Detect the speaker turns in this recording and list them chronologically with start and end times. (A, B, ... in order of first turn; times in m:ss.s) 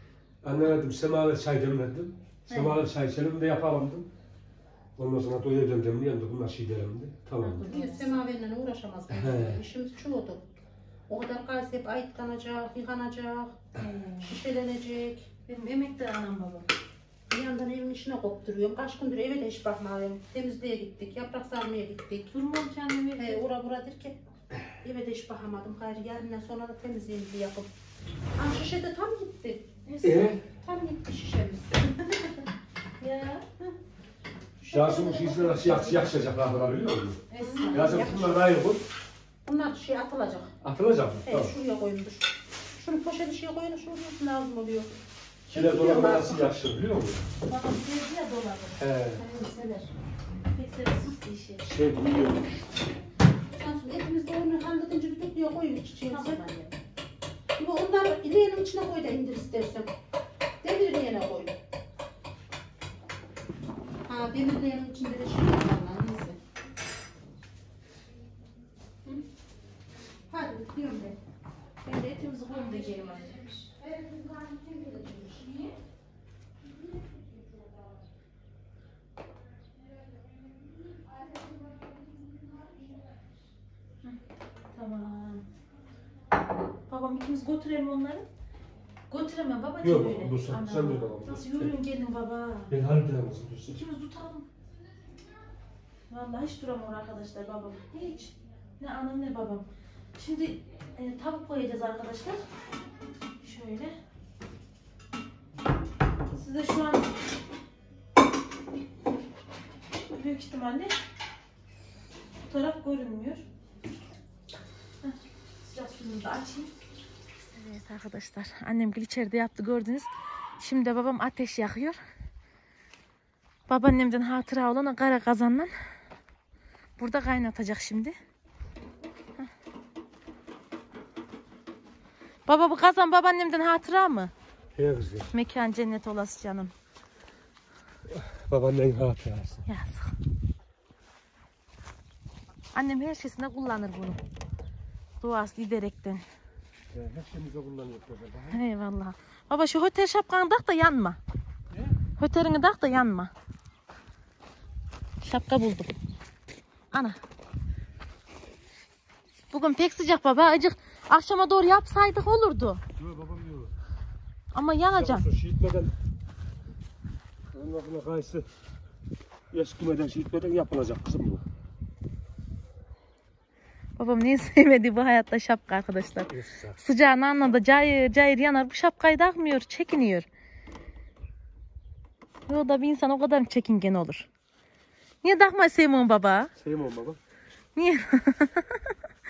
0:00.4-0:04.1 A
0:02.5-0:02.8 B
0:05.0-0:07.7 A
0:07.4-0:08.1 B
0:07.6-0:10.4 C
0:09.1-0:09.6 A
0:11.1-0:13.6 C
0:13.7-0:14.4 B
0:14.2-0:15.3 C
0:15.5-0:16.7 B
0:17.3-0:22.3 C
0:22.3-0:23.4 B
0:23.1-0:24.2 C
0:24.8-0:27.7 C
0:28.4-0:29.7 C
0:29.8-0:30.3 B
0:30.0-0:30.4 A
0:30.5-0:31.9 C
0:33.0-0:33.6 B
0:34.6-0:36.1 C
0:34.7-0:38.8 A
0:37.3-0:38.1 B
0:37.4-0:38.5 C
0:39.4-0:40.5 C
0:40.6-0:41.5 A
0:41.2-0:44.9 C
0:45.5-0:46.5 C
0:45.5-0:47.2 A
0:47.4-0:48.8 B
0:48.8-0:49.2 A
0:49.1-0:49.9 C
0:50.5-0:51.6 B
0:51.6-0:52.6 A
0:53.5-0:56.5 C
0:56.1-0:56.7 B
0:57.5-0:59.9 C
1:00.6-1:01.6 C
1:04.0-1:06.4 C
1:10.3-1:11.2 C
1:11.8-1:13.6 B
1:13.6-1:15.8 C
1:16.6-1:18.0 C
1:20.8-1:23.2 C
1:24.7-1:25.4 B
1:26.9-1:28.2 B
1:29.1-1:32.7 B
1:29.8-1:31.7 A
1:32.7-1:33.8 A
1:33.7-1:34.5 B
1:36.1-1:39.6 B
1:40.2-1:42.4 B
1:43.4-1:44.0 B
1:46.3-1:47.1 B
1:50.1-1:50.9 B
1:52.5-1:53.4 B
1:55.0-1:56.7 B
1:57.5-2:02.0 B
2:03.7-2:05.7 B
2:07.0-2:08.2 B
2:12.5-2:14.3 B
2:14.8-2:15.3 A
2:15.3-2:16.7 B
2:18.1-2:19.6 A
2:19.6-2:20.1 B
2:22.7-2:24.2 B
2:25.2-2:26.2 B
2:26.9-2:28.6 A
2:28.5-2:31.2 B
2:31.7-2:32.0 A
2:32.2-2:33.3 B
2:35.2-2:36.0 B
2:36.9-2:37.2 B
2:39.5-2:42.8 B
2:43.0-2:43.7 A
2:44.5-2:45.3 B
2:44.9-2:45.9 A
2:47.5-2:48.4 A
2:49.5-2:51.4 A
2:54.0-3:00.3 B
2:56.3-2:56.8 A
3:02.5-3:04.3 B
3:05.2-3:06.5 B
3:06.6-3:07.2 A
3:07.8-3:08.9 B